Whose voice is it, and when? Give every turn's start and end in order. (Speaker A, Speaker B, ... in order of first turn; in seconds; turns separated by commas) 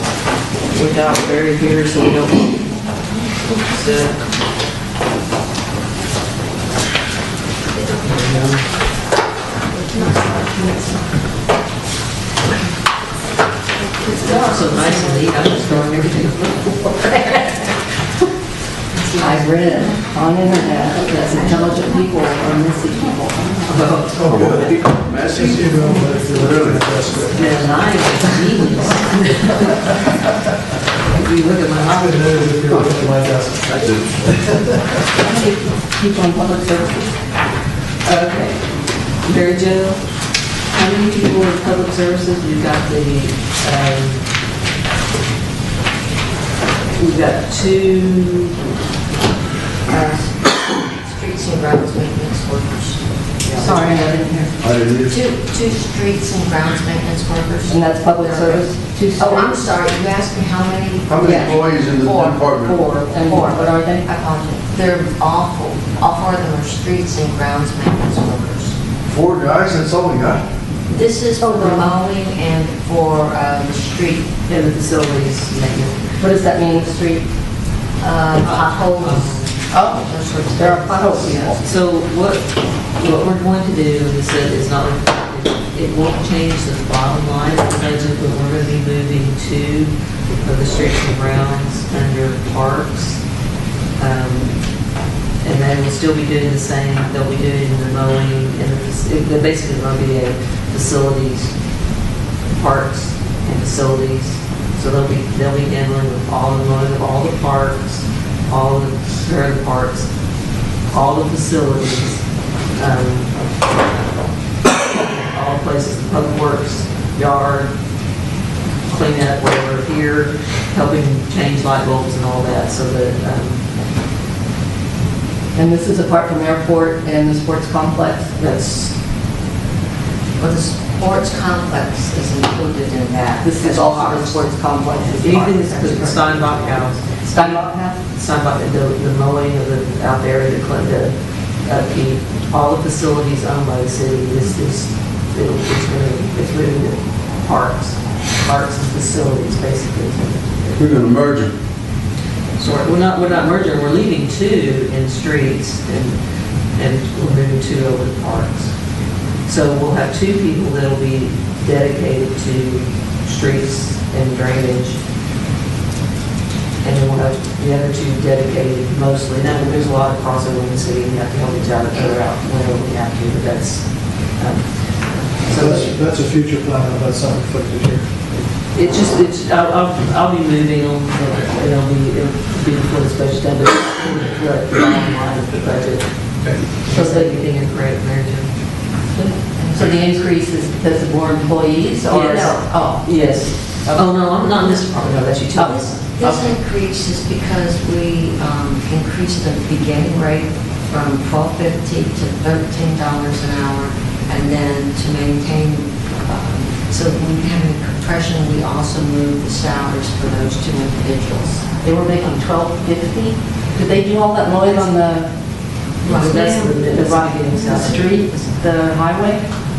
Speaker A: 0.7-2.7, Speaker A: 3.7-4.2, Speaker A: 8.0-8.6, Speaker B: 9.7-11.1, Speaker B: 13.8-16.0, Speaker A: 14.2-16.8, Speaker B: 16.9-17.6, Speaker B: 18.9-20.0, Speaker C: 19.1-24.4, Speaker B: 21.3-21.6, Speaker A: 23.7-24.6, Speaker D: 24.2-24.6, Speaker E: 24.2-27.6, Speaker D: 25.3-27.7, Speaker A: 27.3-30.1, Speaker A: 31.1-32.4, Speaker D: 31.8-34.8, Speaker C: 35.2-37.1, Speaker A: 38.0-40.1, Speaker A: 40.7-44.2, Speaker A: 47.0-48.6, Speaker B: 49.9-54.0, Speaker A: 53.4-53.7, Speaker C: 53.6-54.6, Speaker E: 54.6-55.2, Speaker B: 54.9-68.8, Speaker C: 57.7-59.7, Speaker E: 61.1-62.9, Speaker C: 61.2-61.6, Speaker C: 62.3-64.1, Speaker E: 69.1-70.4, Speaker B: 70.9-74.3, Speaker C: 71.4-71.9, Speaker A: 74.5-76.1, Speaker C: 76.2-77.2, Speaker B: 78.0-81.6, Speaker A: 78.4-79.5, Speaker C: 79.7-81.6, Speaker A: 81.6-89.9, Speaker A: 90.4-93.2, Speaker A: 94.0-94.6, Speaker A: 95.4-101.5, Speaker A: 102.5-110.1, Speaker A: 110.9-113.4, Speaker A: 114.9-117.7, Speaker A: 118.9-123.6, Speaker C: 125.5-128.4, Speaker A: 128.4-128.9, Speaker B: 130.4-134.4, Speaker C: 133.4-136.0, Speaker A: 135.2-151.1, Speaker B: 135.5-136.8, Speaker C: 137.2-138.0, Speaker E: 150.8-151.5, Speaker A: 152.6-156.2, Speaker A: 156.8-158.7, Speaker A: 159.5-165.0, Speaker A: 166.8-176.1, Speaker D: 175.5-178.1, Speaker A: 178.7-186.1, Speaker A: 186.8-188.5, Speaker C: 186.9-187.4, Speaker C: 189.2-194.1, Speaker B: 189.5-190.1, Speaker A: 192.1-196.0, Speaker C: 195.6-196.5, Speaker B: 195.9-211.7, Speaker C: 211.8-215.3, Speaker B: 216.0-216.9, Speaker A: 216.1-218.1, Speaker C: 216.1-219.4, Speaker B: 217.6-218.5